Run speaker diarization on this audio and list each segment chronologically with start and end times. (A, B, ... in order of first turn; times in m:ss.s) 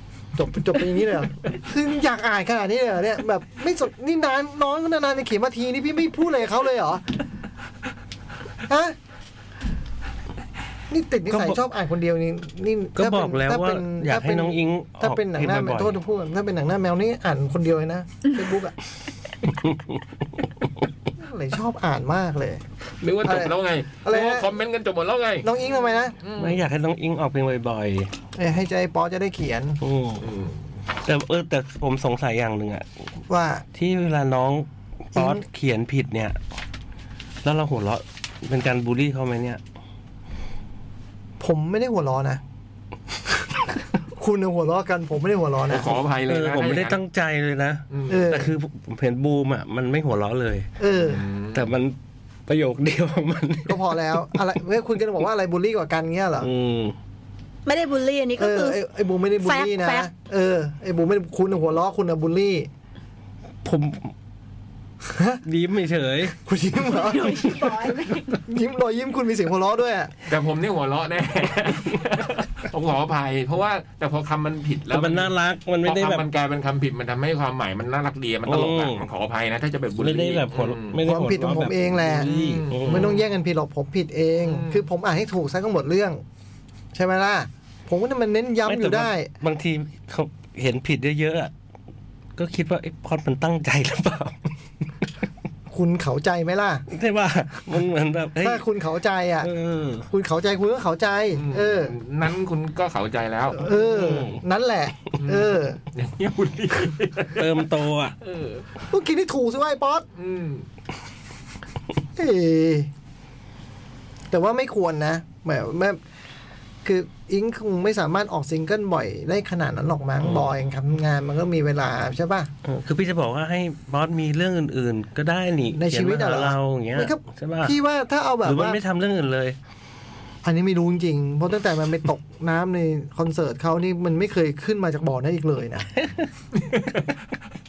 0:00.3-0:07.2 A
0:08.7-0:09.0 A
0:10.9-0:18.7 A
0:11.3-0:11.6 B
0:13.0-0:16.0 B
0:19.5-0:20.0 B
0:21.2-0:22.6 A
0:23.0-0:25.5 C
0:23.2-0:24.5 A
0:25.4-0:26.2 A
0:26.2-0:26.6 C
0:26.4-0:28.1 B
0:28.3-0:29.8 A
0:29.8-0:30.3 B
0:30.2-0:30.6 C
0:31.0-0:32.9 B
0:33.3-0:33.6 A
0:33.7-0:36.4 B
0:35.1-0:35.4 A
0:37.4-0:39.6 B
0:41.4-0:42.4 A
0:44.1-0:46.0 A
0:45.6-0:47.0 C
0:46.3-0:50.7 B
0:47.9-0:48.3 C
0:48.1-0:48.5 A
0:50.8-0:51.2 A
0:50.9-0:51.7 C
0:51.5-0:54.2 B
0:53.6-0:56.5 A
0:56.4-0:57.0 B
0:57.6-0:58.8 D
0:58.4-1:02.7 A
0:59.4-1:00.1 D
1:03.6-1:04.1 B
1:05.1-1:05.4 A
1:05.4-1:06.3 B
1:06.3-1:10.1 A
1:06.8-1:08.4 D
1:10.2-1:21.0 C
1:14.9-1:16.2 B
1:18.4-1:19.1 B
1:20.0-1:23.2 B
1:21.0-1:26.2 A
1:22.1-1:23.2 C
1:24.4-1:24.8 C
1:26.9-1:29.3 A
1:28.6-1:31.5 B
1:32.4-1:34.5 B
1:35.7-1:36.8 A
1:36.9-1:38.6 B
1:38.4-1:39.5 A
1:39.4-1:40.1 B
1:40.1-1:41.9 A
1:41.3-1:43.7 C
1:43.5-1:45.8 A
1:43.7-1:44.4 B
1:45.2-1:47.7 C
1:47.4-1:48.2 B
1:48.2-1:48.7 C
1:48.9-1:50.1 A
1:50.1-1:50.7 C
1:52.2-1:52.9 A
1:54.3-1:56.0 A
1:56.8-2:02.5 A
2:00.2-2:00.5 C
2:02.6-2:07.8 B
2:05.7-2:08.8 A
2:08.4-2:09.6 B
2:10.4-2:15.9 A